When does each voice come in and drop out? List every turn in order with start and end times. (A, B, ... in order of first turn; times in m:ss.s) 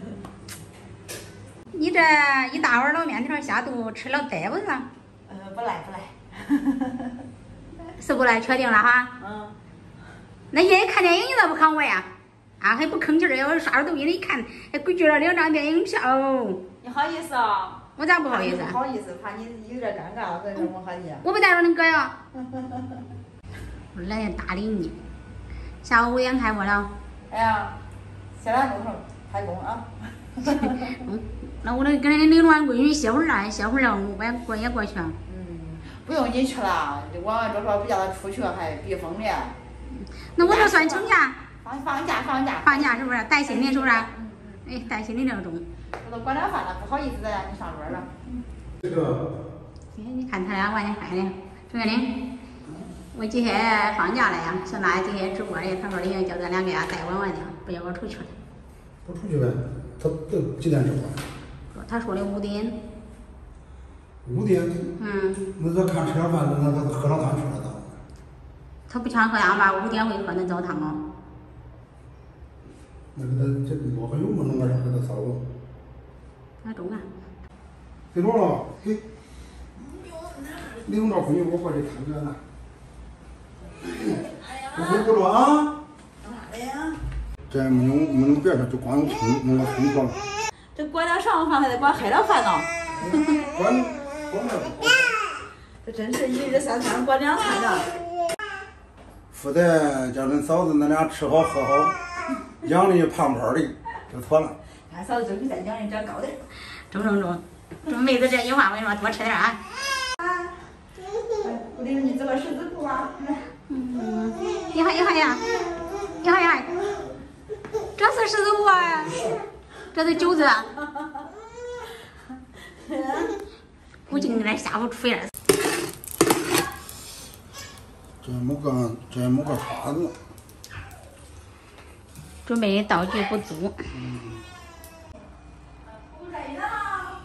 0:01.7-0:04.8 A
0:05.3-0:07.2 B
0:07.9-0:09.1 A
0:09.2-0:09.6 B
0:10.5-0:12.1 A
0:12.6-0:16.6 A
0:16.8-0:21.2 B
0:18.0-0:18.8 A
0:21.2-0:22.1 A
0:22.4-0:22.8 B
0:23.9-0:25.0 A
0:25.8-0:26.9 A
0:27.3-0:27.8 B
0:28.4-0:30.9 B
0:30.5-0:35.2 A
0:35.3-0:39.6 B
0:40.0-0:41.4 A
0:40.4-0:41.1 B
0:41.6-0:44.6 B
0:42.6-0:44.1 A
0:44.6-0:45.6 A
0:46.0-0:48.1 B
0:48.8-0:49.3 C
0:49.9-0:52.1 A
0:53.1-0:58.3 A
0:59.0-1:01.2 C
1:01.7-1:02.8 A
1:04.2-1:04.9 C
1:05.0-1:05.5 A
1:05.6-1:07.9 C
1:08.9-1:11.0 A
1:13.1-1:15.4 C
1:16.6-1:17.1 A
1:18.1-1:19.0 C
1:20.7-1:22.4 C
1:24.0-1:25.8 C
1:24.6-1:25.0 B
1:26.2-1:27.0 B
1:27.5-1:30.2 C
1:30.7-1:32.7 B
1:33.1-1:35.2 C
1:35.8-1:38.0 B
1:39.3-1:42.0 C
1:42.6-1:44.6 C
1:44.9-1:46.4 B
1:46.7-1:49.7 A
1:51.4-1:53.5 B
1:53.7-1:55.4 A
1:56.2-1:56.8 A
1:58.0-1:59.3 A
1:59.9-2:00.7 A
2:02.9-2:03.3 B
2:04.1-2:05.3 A
2:08.2-2:10.2 C
2:12.4-2:13.8 A
2:13.9-2:14.4 C
2:16.1-2:17.0 B